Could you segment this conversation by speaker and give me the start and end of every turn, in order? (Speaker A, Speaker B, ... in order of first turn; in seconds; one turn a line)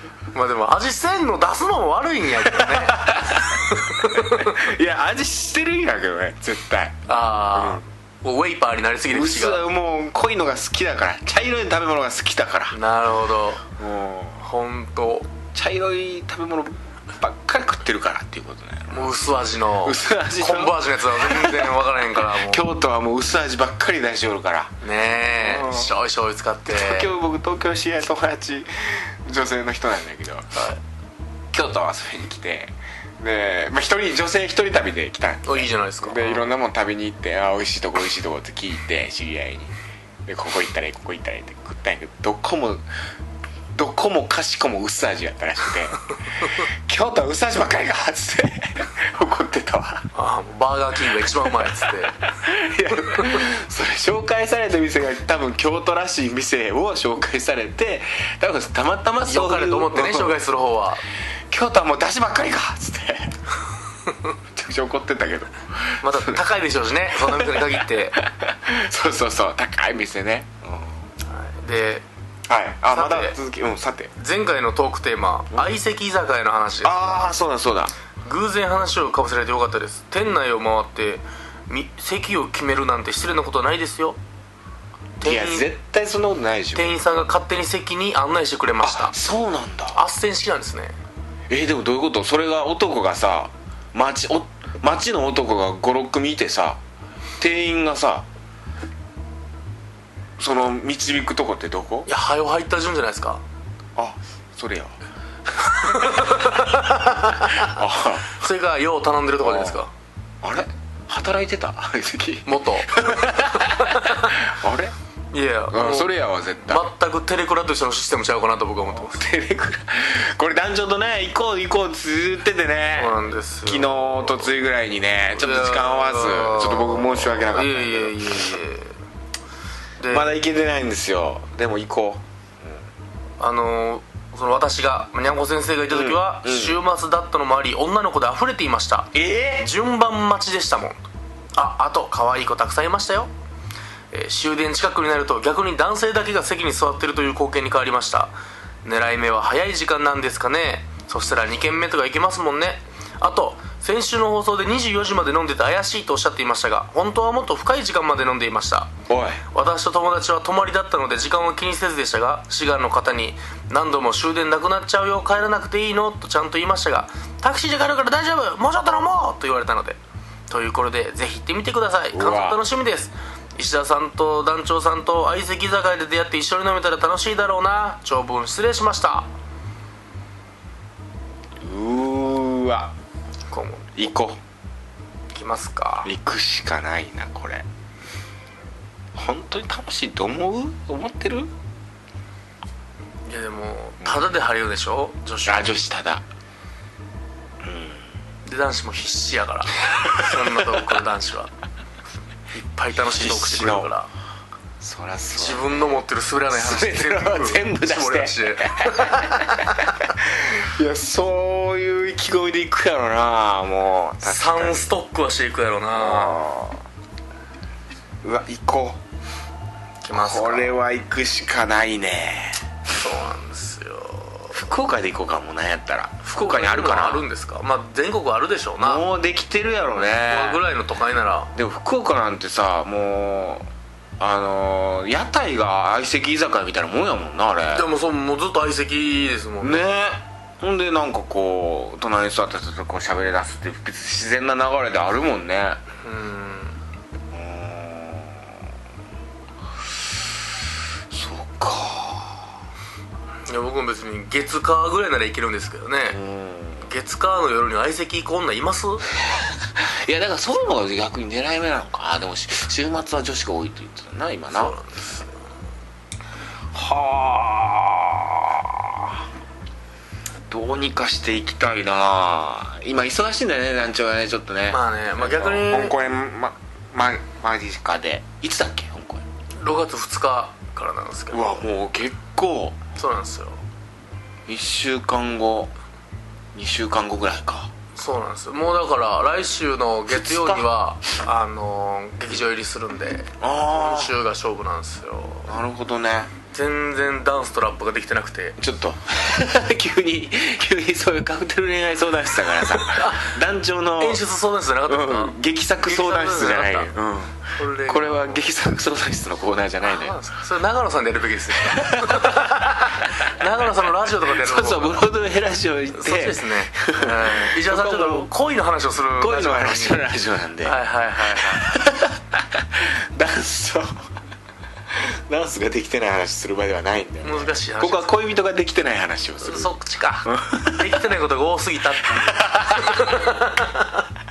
Speaker A: 0.3-4.6
Speaker B: 2.5-7.8
Speaker A: 7.1-9.6
Speaker B: 9.1-12.8
Speaker A: 12.7-13.6
Speaker B: 13.8-14.4
Speaker A: 14.4-15.3
Speaker B: 15.5-19.2
Speaker A: 18.9-22.6
Speaker B: 19.8-25.9
Speaker A: 24.8-27.1
Speaker B: 26.7-30.6
Speaker A: 30.6-30.8
Speaker B: 31.5-39.7
Speaker A: 35.5-36.5
Speaker B: 40.3-42.8
Speaker B: 43.7-50.1
Speaker A: 50.1-52.2
Speaker B: 51.5-60.4
Speaker A: 53.1-53.4
Speaker A: 59.3-61.0
Speaker B: 61.5-63.4
Speaker B: 64.5-66.4
Speaker A: 66.0-68.2
Speaker B: 67.2-71.0
Speaker A: 71.3-72.0
Speaker B: 72.5-74.1
Speaker A: 72.9-73.4
Speaker A: 74.2-77.3
Speaker B: 76.8-77.9
Speaker A: 78.2-84.2
Speaker A: 85.2-85.7
Speaker B: 85.2-87.0
Speaker A: 86.8-89.2
Speaker B: 88.8-90.0
Speaker A: 89.9-91.0
Speaker B: 91.5-96.8
Speaker B: 97.4-98.3
Speaker B: 100.4-102.1
Speaker A: 102.1-103.4
Speaker B: 104.0-105.0
Speaker B: 105.6-106.6
Speaker A: 105.8-107.8
Speaker B: 107.5-108.3
Speaker A: 108.3-109.9
Speaker B: 109.4-109.8
Speaker B: 110.4-114.9
Speaker A: 112.5-114.4
Speaker A: 115.3-119.3
Speaker B: 115.7-116.9
Speaker B: 118.9-128.6
Speaker A: 123.0-124.5
Speaker A: 125.3-128.9
Speaker A: 130.0-130.3
Speaker B: 130.1-132.8
Speaker A: 133.4-141.0
Speaker B: 135.9-136.8
Speaker B: 139.1-139.7
Speaker A: 141.6-143.3
Speaker A: 144.1-148.3
Speaker A: 148.8-158.9
Speaker B: 159.1-159.4
Speaker A: 159.5-170.0
Speaker A: 170.5-179.3
Speaker B: 172.1-172.6
Speaker B: 181.6-182.9
Speaker A: 183.5-183.9
Speaker B: 184.0-184.4
Speaker A: 185.3-186.1
Speaker B: 186.0-187.7
Speaker B: 189.1-191.5
Speaker A: 193.3-195.7
Speaker B: 194.0-194.3
Speaker B: 195.5-196.2
Speaker B: 197.6-198.0
Speaker A: 198.4-201.5
Speaker B: 200.1-200.7
Speaker A: 202.6-204.1
Speaker B: 203.0-203.9
Speaker B: 204.8-214.9
Speaker A: 205.4-210.0
Speaker A: 214.2-216.4
Speaker B: 215.9-216.8
Speaker B: 218.2-219.0
Speaker A: 220.0-220.8
Speaker B: 220.1-222.7
Speaker A: 222.9-224.6
Speaker B: 224.5-227.3
Speaker A: 226.2-229.0
Speaker B: 228.8-230.6
Speaker A: 230.0-231.5
Speaker B: 231.5-233.7
Speaker B: 234.2-237.9
Speaker A: 237.7-239.9
Speaker B: 239.6-245.8
Speaker A: 246.0-246.8
Speaker B: 247.3-248.6
Speaker B: 251.1-252.5
Speaker A: 253.5-256.2
Speaker B: 256.1-256.9
Speaker A: 256.8-259.1
Speaker B: 259.3-264.8
Speaker A: 264.5-265.4
Speaker B: 266.7-269.2
Speaker B: 270.5-279.2
Speaker A: 274.7-276.0
Speaker A: 279.6-281.6
Speaker B: 281.3-282.8
Speaker A: 283.0-283.6
Speaker B: 284.5-285.7
Speaker B: 286.5-287.7
Speaker A: 288.0-295.5
Speaker B: 290.1-290.7
Speaker B: 293.4-294.1
Speaker B: 295.5-296.3
Speaker A: 296.5-298.6
Speaker B: 298.6-304.2
Speaker A: 302.8-303.3
Speaker A: 304.0-306.9
Speaker B: 304.9-310.2
Speaker A: 307.6-308.4
Speaker A: 309.9-315.0
Speaker B: 311.6-312.6
Speaker B: 314.2-318.3
Speaker A: 315.9-320.0
Speaker B: 319.2-324.0
Speaker A: 320.6-321.7
Speaker B: 324.9-329.7
Speaker A: 327.2-328.1
Speaker A: 329.4-334.1
Speaker B: 330.3-331.1
Speaker B: 332.0-333.3